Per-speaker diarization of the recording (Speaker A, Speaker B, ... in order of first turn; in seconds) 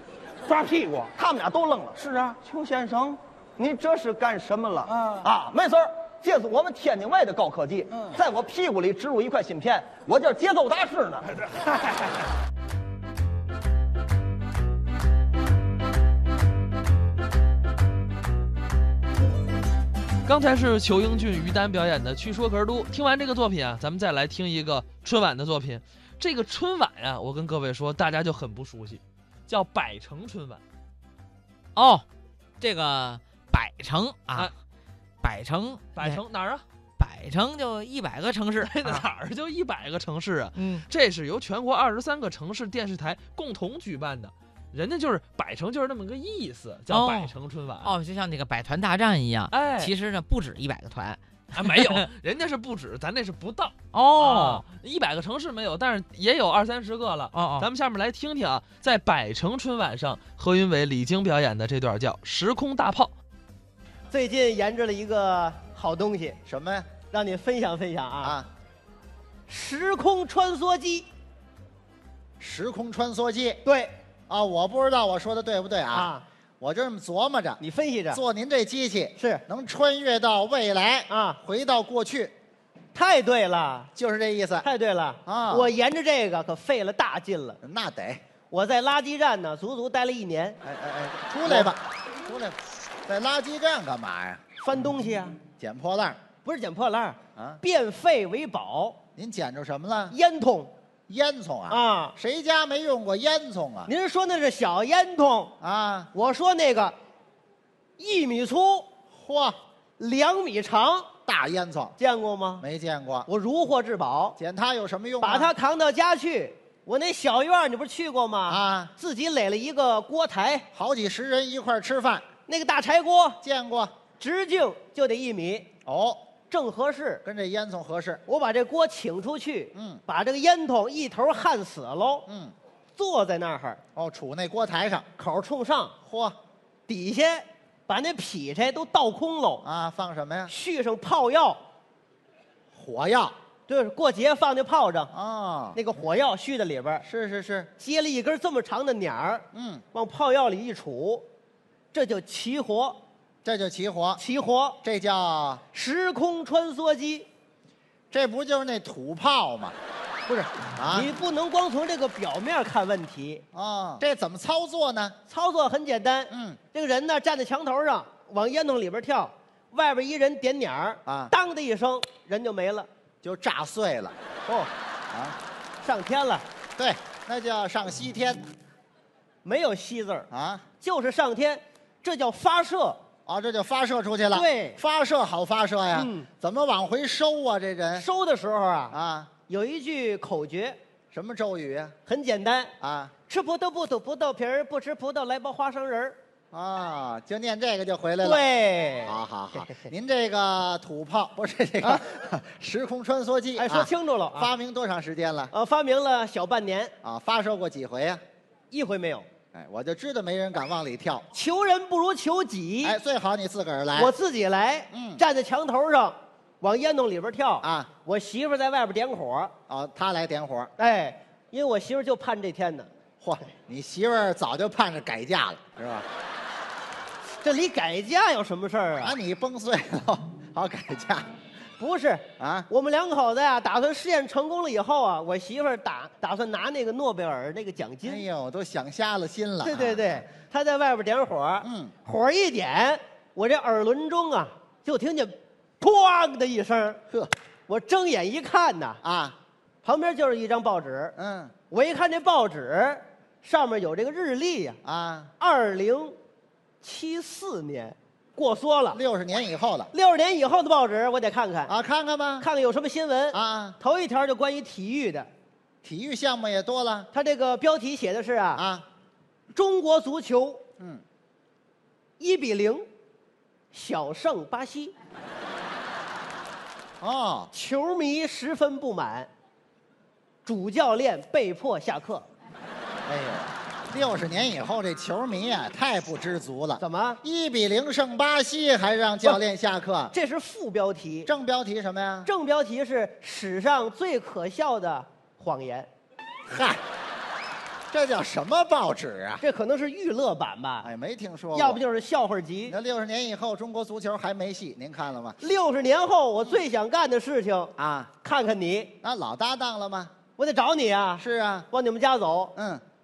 Speaker A: 0.5-1.1, 1.9-2.4, 4.9-5.3, 7.9-8.2, 11.4-12.1
Speaker B: 1.1-11.3
Speaker C: 20.2-30.6, 35.9-36.6, 38.6-48.0, 49.5-49.9, 51.5-63.1
Speaker D: 31.8-32.0, 32.6-34.5, 35.2-36.2, 37.0-39.0, 40.5-40.9, 46.9-52.1, 53.9-54.6, 57.3-57.7
Speaker E: 64.1-66.4, 67.1-68.4, 69.5-71.1, 73.6-73.9, 75.9-76.2, 77.6-78.2, 79.2-79.4, 81.1-81.4, 82.9-83.9, 84.6-87.6, 88.5-90.6, 94.6-95.4, 96.4-99.0, 100.1-100.7, 101.7-102.1, 103.8-105.5, 106.1-106.9, 108.0-108.9, 110.0-111.1, 112.0-112.6, 113.2-114.4, 115.2-120.7, 122.5-123.4, 124.2-125.7, 126.5-127.2, 128.2-132.2, 132.9-133.8, 135.2-135.9, 136.9-139.6, 140.5-141.6, 143.7-145.1, 145.7-147.0, 147.8-151.2, 151.9-153.0, 154.2-154.8, 155.7-157.2, 160.9-163.4, 165.3-172.9, 175.8-176.4, 179.4-180.3, 180.8-183.0, 184.3-184.8, 185.9-186.3, 187.9-188.9, 189.5-190.8, 192.1-192.7, 193.3-196.2, 198.2-199.9, 203.6-204.5, 205.5-206.9, 208.7-209.2, 211.3-213.0, 213.9-219.5, 220.8-222.9, 227.4-229.2, 231.8-238.2, 239.6-247.0, 247.7-249.0, 249.8-251.1, 251.7-254.8, 255.4-256.1, 256.8-259.0, 259.9-261.7, 262.4-265.3, 267.1-268.6, 269.5-270.6, 272.2-272.8, 273.7-274.9, 277.5-279.3, 280.4-282.2, 286.8-287.2, 290.1-291.3, 292.2-295.9, 299.4-300.9, 301.5-302.7, 305.4-308.9, 310.4-312.5
Speaker F: 66.5-66.9, 68.2-68.5, 72.4-73.6, 74.3-82.3, 83.9-84.7, 85.2-85.7, 87.6-88.2, 90.6-94.4, 95.6-96.2, 99.2-100.2, 101.1-103.9, 105.6-106.1, 109.1-109.6, 111.2-111.9, 112.6-113.3, 114.4-115.5, 118.5-118.9, 120.7-122.2, 123.4-123.9, 125.8-126.2, 127.2-128.2, 129.7-130.0, 132.3-132.5, 133.9-135.1, 136.0-136.3, 139.6-140.5, 142.7-143.3, 145.1-145.8, 147.0-147.7, 149.5-149.8, 153.4-154.2, 154.8-155.6, 158.1-159.7, 160.3-161.1, 163.5-165.2, 166.3-166.6, 171.1-171.3, 173.2-174.1, 175.1-175.3, 176.8-178.4, 180.3-180.6, 183.2-188.1, 188.9-189.3, 191.1-191.9, 192.8-193.1, 196.5-198.4, 199.0-205.5, 207.0-208.2, 209.5-211.3, 212.8-214.1, 214.9-215.2, 217.6-217.9, 219.7-220.7, 223.2-226.1, 229.0-231.3, 232.4-232.7, 238.0-240.2, 241.6-241.9, 249.0-249.3, 251.2-251.5, 254.8-255.3, 258.9-259.9, 261.7-262.5, 263.3-263.8, 265.8-267.1, 268.6-268.8, 277.0-277.5, 283.1-290.1, 291.2-292.3, 296.5-296.8, 297.9-299.4, 300.8-301.8, 302.7-305.4, 307.8-308.1, 309.0-310.1, 311.2-311.7, 312.6-312.8